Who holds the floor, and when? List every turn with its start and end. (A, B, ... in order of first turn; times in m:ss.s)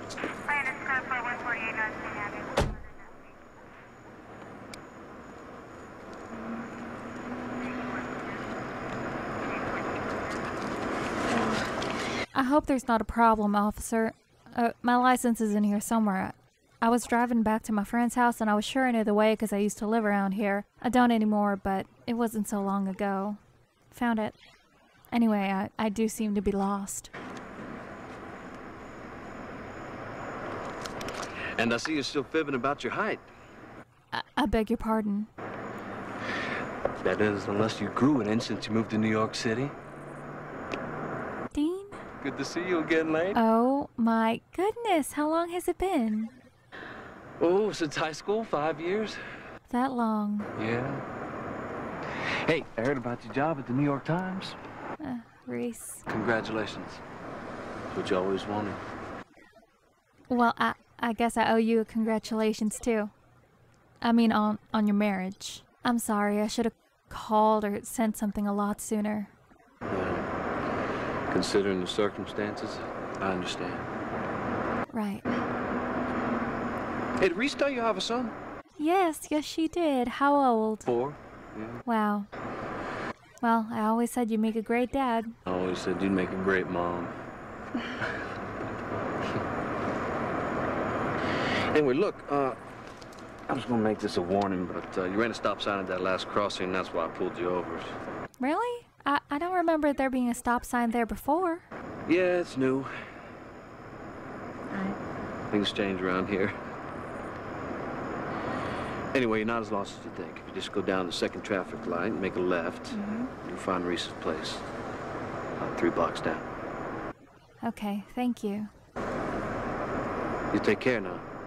0:12.3-0:24.4 A
0:25.0-0:27.1 A
0:31.6-0:33.3 B
0:34.1-0:35.3 A
0:37.0-0:39.8 B
0:41.5-0:42.0 A
0:42.2-0:43.4 B
0:43.3-0:46.4 A
0:47.4-0:49.2 B
0:49.7-0:50.5 A
0:50.6-0:51.0 B
0:52.1-0:54.6 B
0:55.0-0:56.0 A
0:56.1-0:57.0 B
0:57.9-0:58.8 B
1:00.3-1:03.1 A
1:04.0-1:09.3 A
1:09.9-1:10.3 B
1:11.3-1:13.9 B
1:14.9-1:15.5 A
1:17.2-1:18.3 B
1:18.8-1:20.9 A
1:20.9-1:21.8 B
1:21.8-1:22.3 A
1:23.4-1:25.4 A
1:25.4-1:27.1 B
1:31.7-1:32.6 B
1:33.5-1:38.0 B
1:38.4-1:41.6 A
1:42.1-1:42.9 B
1:45.5-1:46.5 B
1:49.1-1:54.6 B
1:52.9-1:53.3 A
1:55.6-1:56.5 B
1:57.6-1:58.7 A
2:00.5-2:01.2 B